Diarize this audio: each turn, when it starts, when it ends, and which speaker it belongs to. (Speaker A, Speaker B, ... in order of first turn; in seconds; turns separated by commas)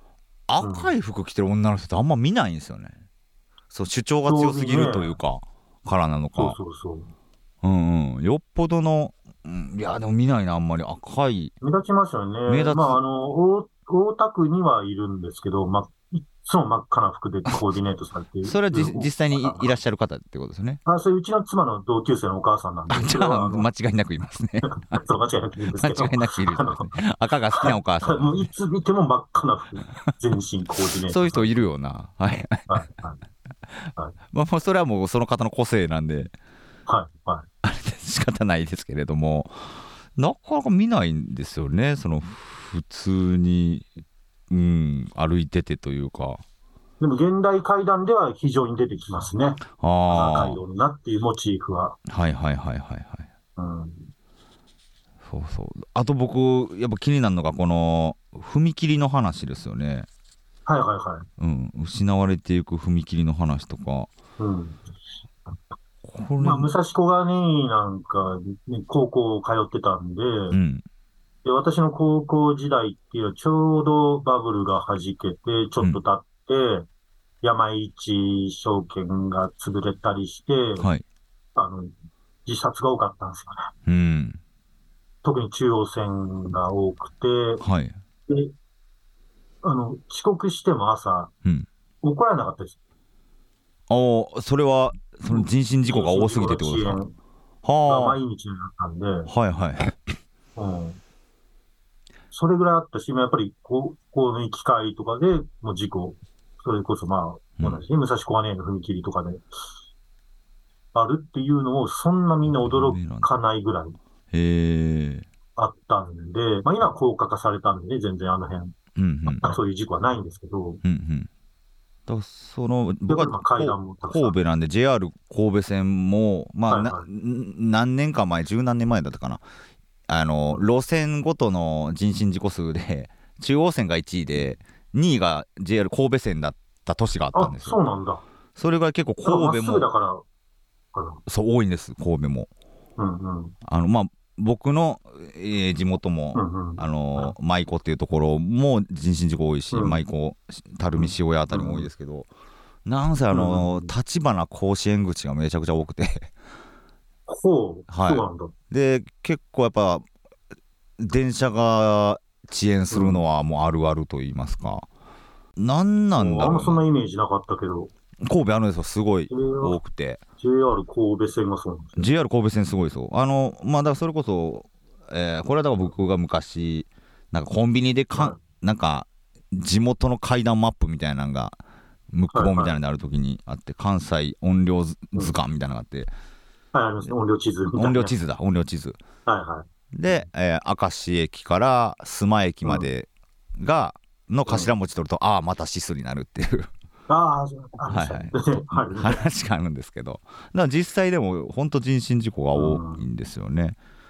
Speaker A: 0.5-3.0, Speaker B: 0.6-0.9, Speaker A: 3.7-6.6, Speaker B: 4.3-5.2, Speaker B: 6.3-7.1, Speaker A: 7.6-11.5, Speaker B: 11.6-19.7, Speaker A: 12.5-13.0, Speaker A: 18.4-20.8, Speaker B: 20.9-23.7, Speaker A: 22.9-25.0, Speaker B: 24.6-26.9, Speaker A: 25.7-28.5, Speaker B: 27.5-31.6, Speaker A: 31.0-32.8, Speaker B: 32.7-33.2, Speaker A: 34.3-36.3, Speaker B: 36.9-37.5, Speaker A: 37.6-43.9, Speaker A: 44.5-46.4, Speaker B: 47.0-52.0, Speaker A: 49.8-50.6, Speaker A: 52.1-53.3, Speaker B: 53.6-54.1, Speaker A: 55.2-60.1, Speaker B: 60.7-61.3, Speaker A: 61.4-64.1, Speaker B: 64.4-64.8, Speaker A: 66.0-66.7, Speaker B: 66.4-70.6, Speaker A: 70.5-70.8, Speaker B: 71.4-76.9, Speaker B: 77.4-80.9, Speaker B: 81.5-81.9, Speaker B: 82.5-83.7, Speaker A: 83.9-84.4, Speaker B: 85.2-87.6, Speaker A: 87.6-88.0, Speaker B: 88.3-88.5, Speaker B: 89.6-91.3, Speaker B: 92.0-92.8, Speaker A: 93.9-97.0, Speaker B: 95.3-97.1, Speaker A: 97.6-98.2, Speaker B: 97.9-99.3, Speaker A: 99.3-100.0, Speaker B: 100.6-101.0, Speaker B: 102.3-109.4, Speaker B: 110.9-114.0, Speaker A: 112.5-113.3, Speaker A: 114.3-115.3, Speaker B: 115.6-120.8, Speaker A: 119.0-119.5, Speaker A: 120.8-121.3, Speaker A: 122.1-129.4, Speaker B: 123.1-124.4, Speaker B: 126.7-127.0, Speaker A: 130.1-137.8, Speaker B: 137.3-138.2, Speaker A: 138.6-139.9, Speaker B: 139.2-140.2, Speaker B: 140.9-141.2, Speaker A: 141.3-142.5, Speaker B: 143.0-143.6, Speaker A: 143.7-152.3, Speaker B: 146.3-147.3, Speaker B: 149.7-150.0, Speaker B: 151.0-151.9, Speaker A: 152.8-156.3, Speaker B: 153.3-153.9, Speaker B: 157.3-158.5, Speaker A: 157.9-160.1, Speaker A: 161.0-164.9, Speaker B: 162.9-163.2, Speaker A: 165.6-166.8, Speaker B: 166.2-167.9, Speaker A: 168.2-170.2, Speaker B: 169.3-169.8, Speaker B: 170.4-172.1, Speaker A: 172.0-181.6, Speaker B: 178.1-178.4, Speaker A: 182.1-186.1, Speaker B: 182.3-182.8, Speaker B: 186.7-188.1, Speaker A: 187.8-189.0, Speaker B: 189.3-190.2, Speaker A: 189.9-196.7, Speaker B: 197.1-199.3, Speaker A: 197.9-203.8, Speaker B: 202.5-203.1